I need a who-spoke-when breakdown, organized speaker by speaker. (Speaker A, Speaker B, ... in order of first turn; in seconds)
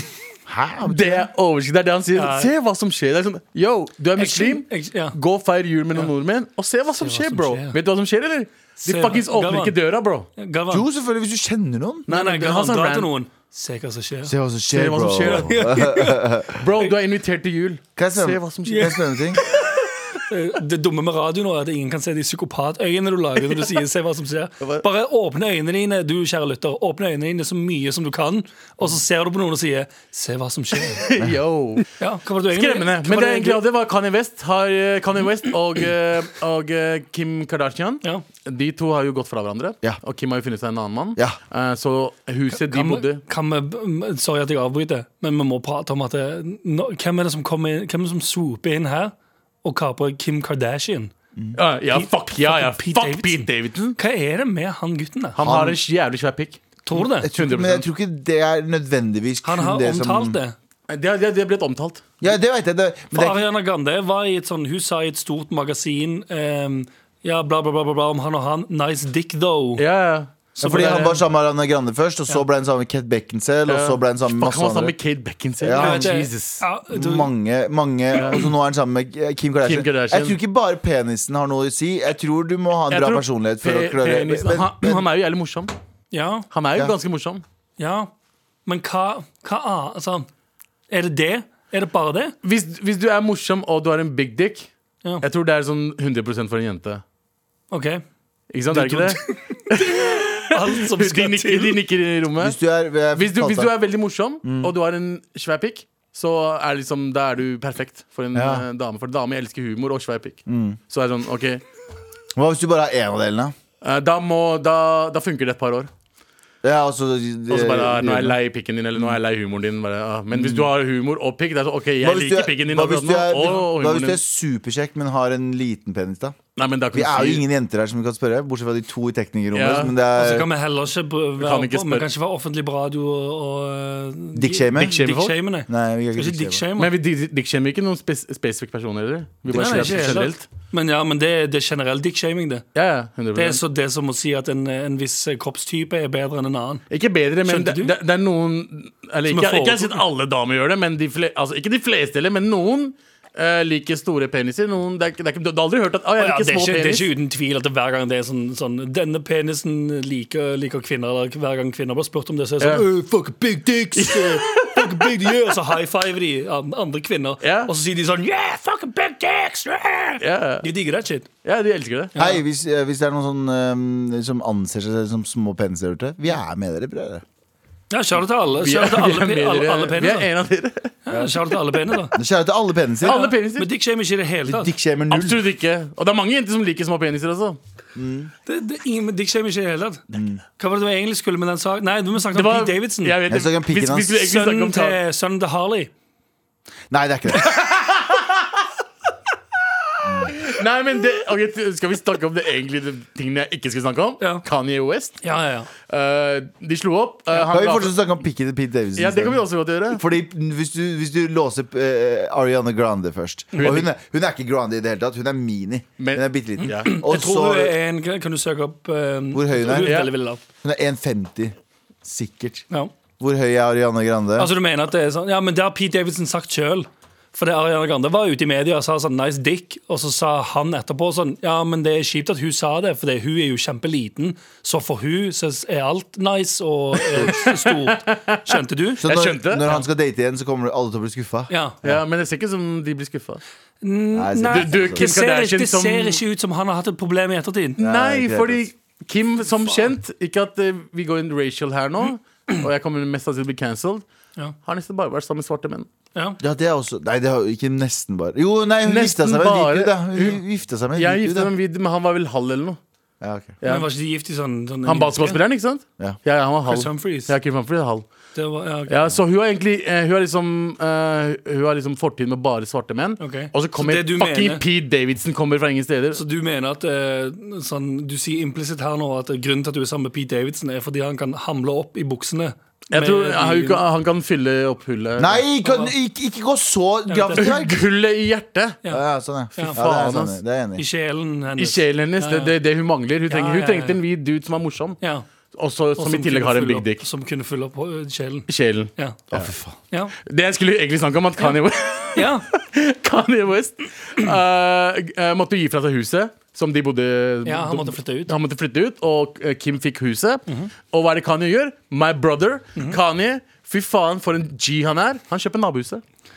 Speaker A: 0.5-1.3, 10.7-12.1, 14.2-16.7, 18.0-19.4, 55.4-55.8, 56.9-60.4, 62.2-63.5, 70.6-74.9, 75.6-76.1, 76.9-85.0, 102.4-103.7, 104.4-104.7, 108.3-108.6, 110.5-110.8, 112.3-113.5, 116.6-118.4, 120.3-120.7, 122.0-126.4, 126.9-130.5, 134.3-135.0, 135.7-136.6, 172.2-177.2, 182.1-183.3, 184.4-185.4, 187.9-188.3, 190.1-190.4, 193.3-194.2, 196.9-197.6, 200.0-200.3, 207.3-217.7, 219.3-220.1, 220.6-222.7, 223.2-224.5, 239.0-241.9, 244.1-245.1, 247.8-248.7, 256.4-261.5, 263.2-263.6, 285.2-287.8, 288.9-290.8, 299.3-299.8
Speaker B: 0.8-10.3, 12.1-13.1, 14.7-15.7, 16.6-19.0, 30.9-31.9, 32.5-43.2, 51.5-54.0, 55.4-56.6, 57.3-57.9, 60.9-62.0, 69.8-71.2, 73.7-76.6, 78.1-78.4, 79.6-80.4, 82.9-85.7, 86.5-87.4, 92.4-94.7, 95.2-97.0, 98.5-102.6, 103.1-111.6, 113.8-115.9, 117.5-124.2, 126.5-127.4, 129.5-129.9, 131.4-132.1, 134.7-135.3, 136.8-140.4, 142.7-143.6, 146.9-157.1, 162.6-162.9, 164.0-165.1, 167.4-167.7, 170.2-170.7, 171.4-172.1, 178.6-181.3, 183.0-183.7, 185.1-187.6, 192.3-195.0, 197.3-198.6, 200.2-205.2, 205.9-208.0, 208.9-210.0, 213.6-213.9, 216.0-216.9, 219.7-220.1, 237.0-239.7, 241.8-243.4, 244.5-246.2, 247.8-254.0, 254.6-255.9, 258.8-260.4, 260.9-262.8, 263.6-263.9, 264.8-268.0, 268.9-276.2, 282.9-285.4, 287.4-288.8, 289.6-290.4, 291.6-295.0, 295.5-297.1, 298.5-299.5, 300.2-316.0
Speaker C: 2.1-2.5, 4.2-5.2, 7.0-7.8, 8.8-9.8, 10.4-10.8, 12.1-14.3, 15.2-16.2, 18.6-31.0, 32.0-33.6, 42.5-49.1, 49.6-51.1, 51.9-55.4, 56.9-57.3, 59.4-60.5, 63.1-69.8, 70.6-71.2, 75.8-77.3, 86.1-86.5, 87.8-88.1, 88.7-90.3, 90.9-92.3, 97.7-98.0, 98.7-101.8, 130.1-136.9, 139.5-142.6, 143.3-146.8, 147.4-147.9, 149.3-150.0, 156.2-171.3, 172.1-172.4, 177.9-180.3, 181.1-182.2, 183.0-184.7, 188.4-190.0, 190.6-193.2, 194.2-195.9, 205.2-205.7, 216.6-220.4, 224.4-239.0, 241.5-241.8, 243.8-247.8, 256.1-256.4, 263.6-265.4, 266.7-267.3, 268.3-269.0, 273.2-274.6, 276.1-283.8, 285.6-285.9, 287.1-287.5, 290.8-292.5, 293.3-294.0, 295.0-295.2, 296.0-299.2, 299.9-300.1, 302.1-302.4, 307.4-308.3